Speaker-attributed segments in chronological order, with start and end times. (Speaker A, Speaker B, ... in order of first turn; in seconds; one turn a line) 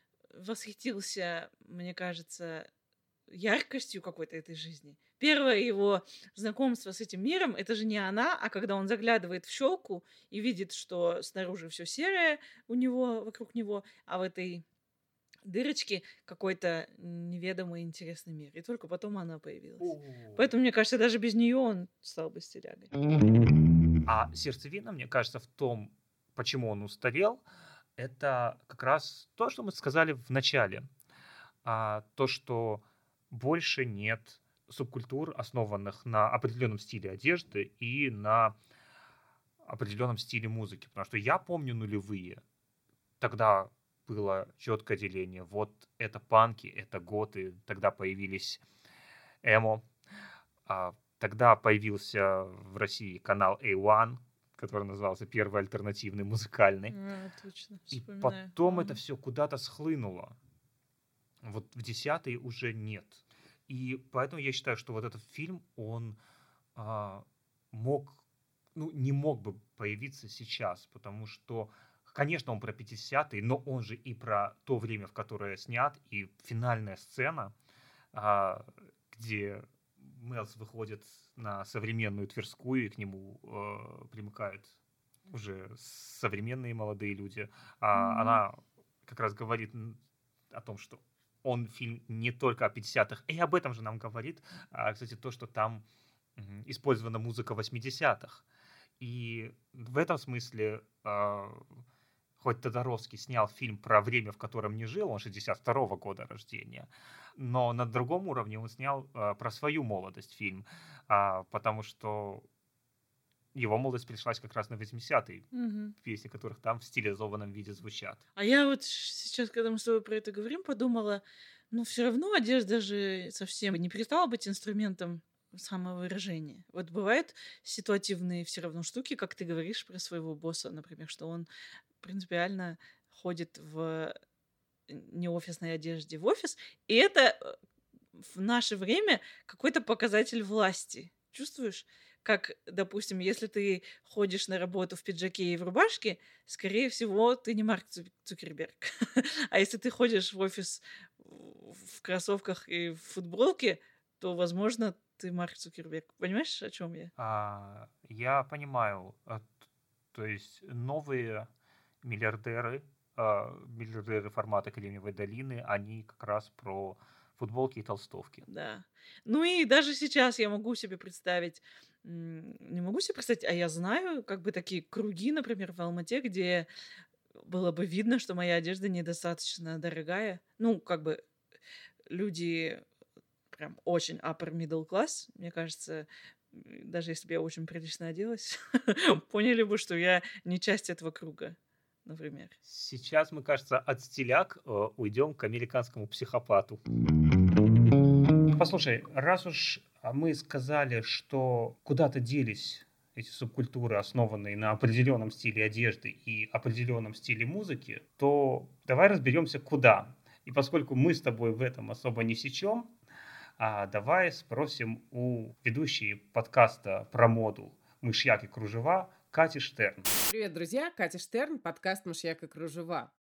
Speaker A: 0.3-2.7
Speaker A: 3.3-14.6
Speaker A: 15.4-22.9
Speaker B: 19.8-20.5
Speaker B: 24.1-27.4
Speaker B: 28.0-30.9
Speaker B: 31.6-38.5
Speaker B: 39.6-42.4
Speaker B: 43.2-48.6
Speaker B: 49.4-49.9
Speaker B: 50.7-56.9
Speaker A: 56.9-59.0
Speaker B: 57.9-60.4
Speaker B: 61.4-66.2
Speaker B: 66.8-68.2
Speaker B: 68.8-77.5
Speaker B: 78.1-84.8
Speaker B: 85.3-90.0
Speaker A: 87.9-88.4
Speaker B: 90.5-95.8
Speaker B: 96.4-98.4
Speaker B: 99.0-101.8
Speaker B: 102.4-112.5
Speaker B: 113.5-115.5
Speaker A: 115.5-116.0
Speaker B: 116.0-118.2
Speaker A: 118.4-131.5
Speaker A: 132.0-134.1
Speaker A: 134.9-137.5
Speaker A: 138.2-157.1
Speaker B: 157.2-159.5
Speaker B: 160.1-161.5
Speaker B: 162.0-168.5
Speaker A: 168.5-176.7
Speaker A: 177.4-181.2
Speaker A: 182.1-182.8
Speaker A: 183.5-192.6
Speaker B: 192.6-196.8
Speaker B: 198.6-212.9
Speaker B: 213.6-220.1
Speaker C: 220.3-223.1